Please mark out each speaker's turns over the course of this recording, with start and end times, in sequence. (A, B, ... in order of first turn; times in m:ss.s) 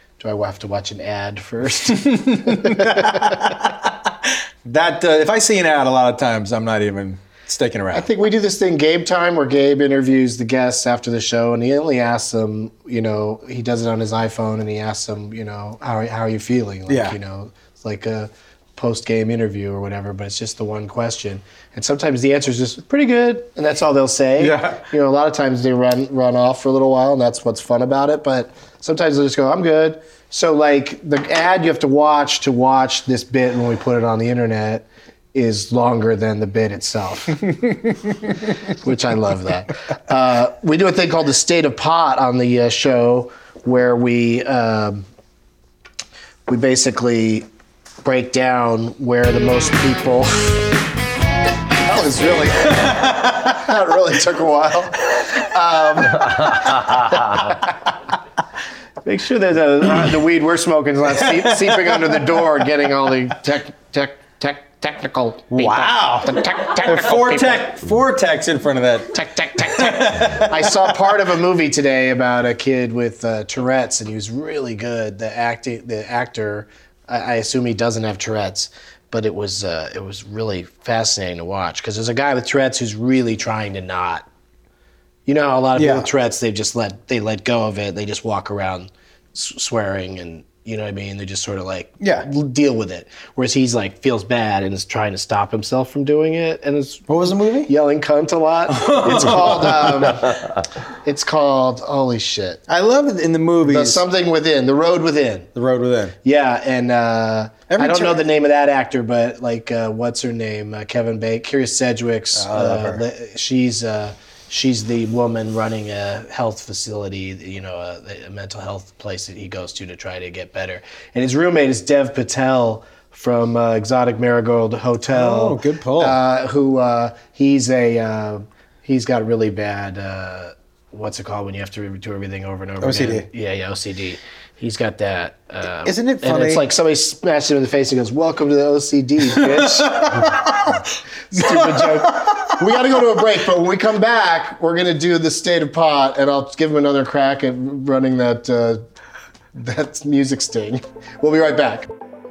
0:00.2-0:03.4 A
0:01.9-0:08.1 B
0:07.9-0:37.5 A
0:16.9-0:17.2 B
0:24.4-0:24.8 B
0:38.7-0:45.0 A
0:46.5-0:47.5 A
0:48.0-0:50.6 A
0:51.8-0:57.7 A
0:59.0-1:07.7 A
1:01.1-1:02.4 B
1:05.5-1:11.1 B
1:09.2-1:24.3 A
1:25.3-1:37.1 A
1:25.8-1:26.1 B
1:32.0-1:32.3 B
1:37.1-1:37.7 B
1:37.6-1:40.5 A
1:38.7-1:40.2 B
1:41.0-1:42.6 A
1:42.7-1:44.0 B
1:43.6-1:45.5 A
1:45.6-1:46.2 B
1:46.2-2:20.4 A
1:47.7-1:48.3 B
1:52.4-1:53.0 B
2:05.1-2:06.2 B
2:12.8-2:13.3 B
2:15.8-2:16.7 B
2:19.3-2:20.8 B
2:21.3-2:28.8 A
2:21.4-2:22.4 B
2:29.6-2:31.9 A